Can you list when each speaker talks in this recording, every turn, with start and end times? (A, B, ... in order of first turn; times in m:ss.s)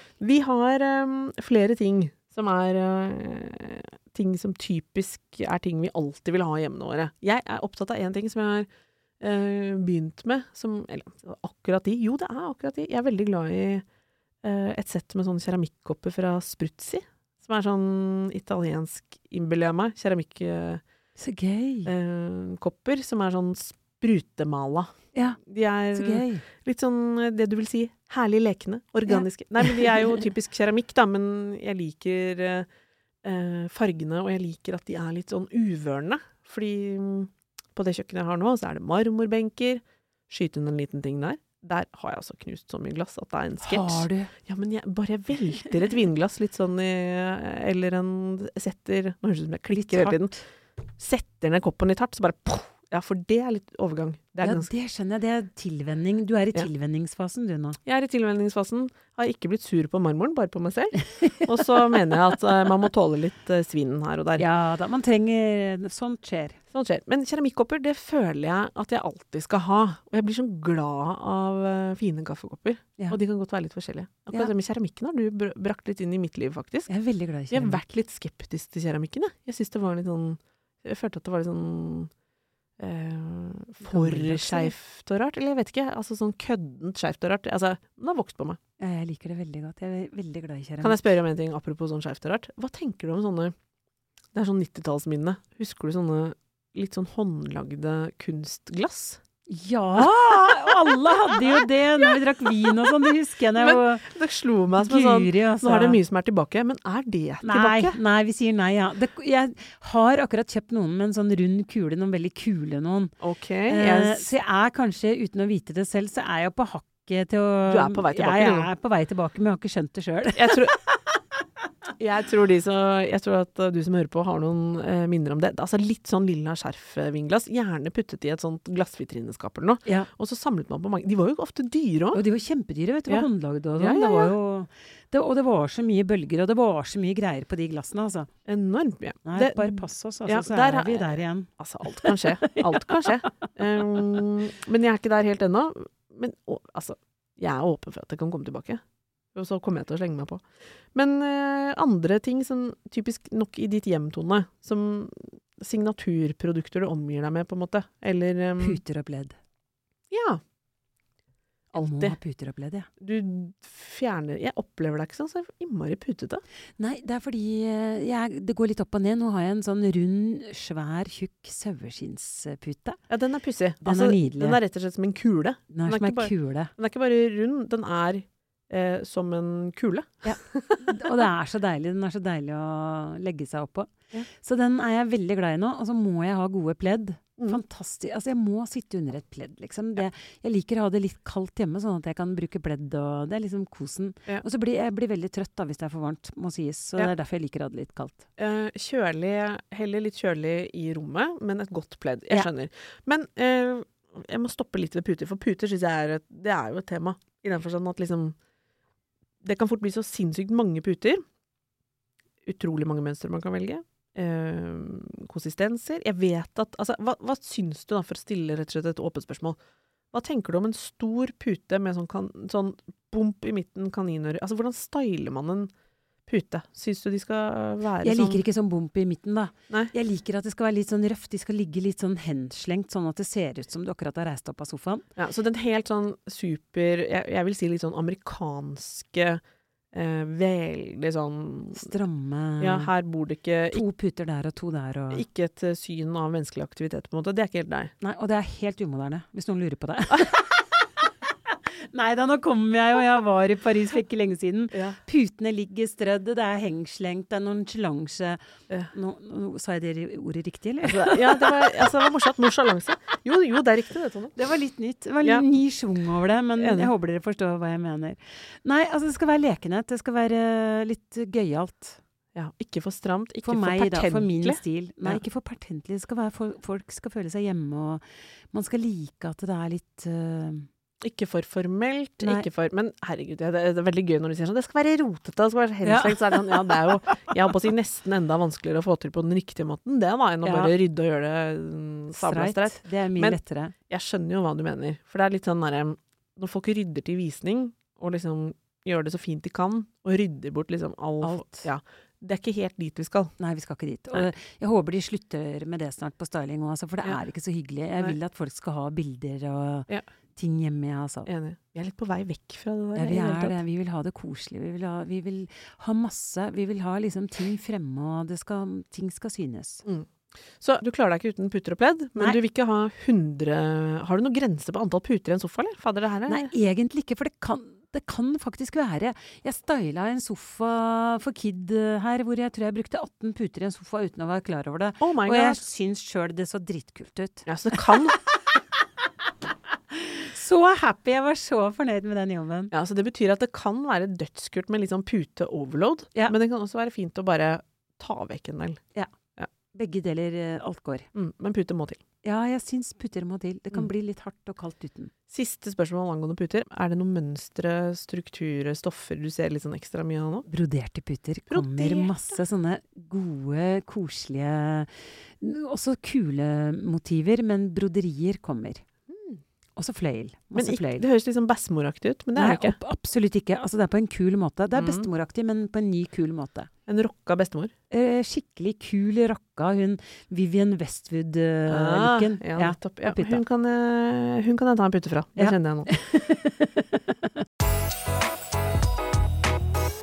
0:00.2-0:08.7 A
0:09.2-0:13.8 A
0:14.4-0:20.8 A
0:21.2-0:21.9 B
0:21.8-0:32.7 A
0:25.1-0:25.4 B
0:25.9-0:26.4 B
0:29.1-0:30.1 B
0:33.2-0:50.4 A
0:43.6-0:44.3 B
0:49.7-0:50.2 B
0:51.0-0:54.7 A
0:54.4-0:57.8 B
0:57.8-1:04.5 A
1:01.1-1:01.6 B
1:04.4-1:06.6 B
1:06.7-1:16.9 A
1:16.9-1:17.8 B
1:17.5-1:22.1 A
1:22.8-1:28.6 A
1:23.8-1:24.7 B
1:28.8-1:31.0 B
1:30.8-1:33.5 A
1:34.3-1:39.2 A
1:39.5-1:44.0 B
1:43.5-1:48.0 A
1:44.8-1:46.0 B
1:47.4-1:53.1 B
1:53.2-1:54.3 A
1:53.7-2:01.0 B
1:57.6-1:58.7 A
2:00.3-2:00.8 A
2:02.0-2:12.2 A
2:12.1-2:18.3 B
2:13.8-2:14.3 A
2:18.4-2:28.8 A
2:19.2-2:23.5 B
2:29.3-2:38.8 A
2:38.6-2:39.4 B
2:40.1-2:40.4 A
2:41.7-2:42.2 A
2:41.8-2:42.9 B
2:43.0-2:46.4 A
2:46.8-2:53.0 B
2:53.1-3:01.3 A
2:53.8-2:54.6 B
2:55.7-2:56.7 B
3:00.2-3:18.3 B
3:18.4-3:28.4 A
3:29.4-3:31.2 A
3:32.4-3:39.6 A
3:40.1-3:45.7 A
3:46.3-3:48.4 A
3:48.0-3:55.0 B
3:55.2-3:59.4 A
3:59.9-4:01.9 A
4:01.8-4:02.9 B
4:02.6-4:03.8 A
4:03.7-4:05.2 B
4:05.1-4:07.9 A
4:08.0-4:10.9 B
4:11.5-4:18.4 B
4:18.9-4:21.8 B
4:20.8-4:24.4 A
4:24.4-4:32.0 B
4:26.6-4:26.9 A
4:32.3-4:35.2 A
4:33.4-4:40.7 B
4:41.0-5:03.3 A
4:42.2-4:42.5 B
4:45.8-4:46.8 B
4:50.4-4:50.7 B
4:52.1-4:53.7 B
5:01.2-5:01.7 B
5:03.4-5:11.3 B
5:11.3-5:13.6 A
5:13.0-5:19.8 B
5:19.8-5:26.5 A
5:26.3-5:38.2 B
5:35.0-5:35.6 A
5:37.4-5:38.2 A
5:39.9-5:42.7 B
5:42.7-5:48.8 A
5:49.7-5:51.1 B
5:51.1-5:52.0 A
5:52.2-5:55.1 B
5:55.3-6:00.5 A
6:00.5-6:08.8 B
6:01.5-6:02.4 A
6:09.1-6:09.4 A
6:09.8-6:11.0 B
6:10.5-6:12.8 A
6:12.4-6:16.7 B
6:14.7-6:15.1 A
6:16.9-6:17.7 A
6:17.9-6:23.4 B
6:21.7-6:25.9 A
6:25.4-6:27.3 B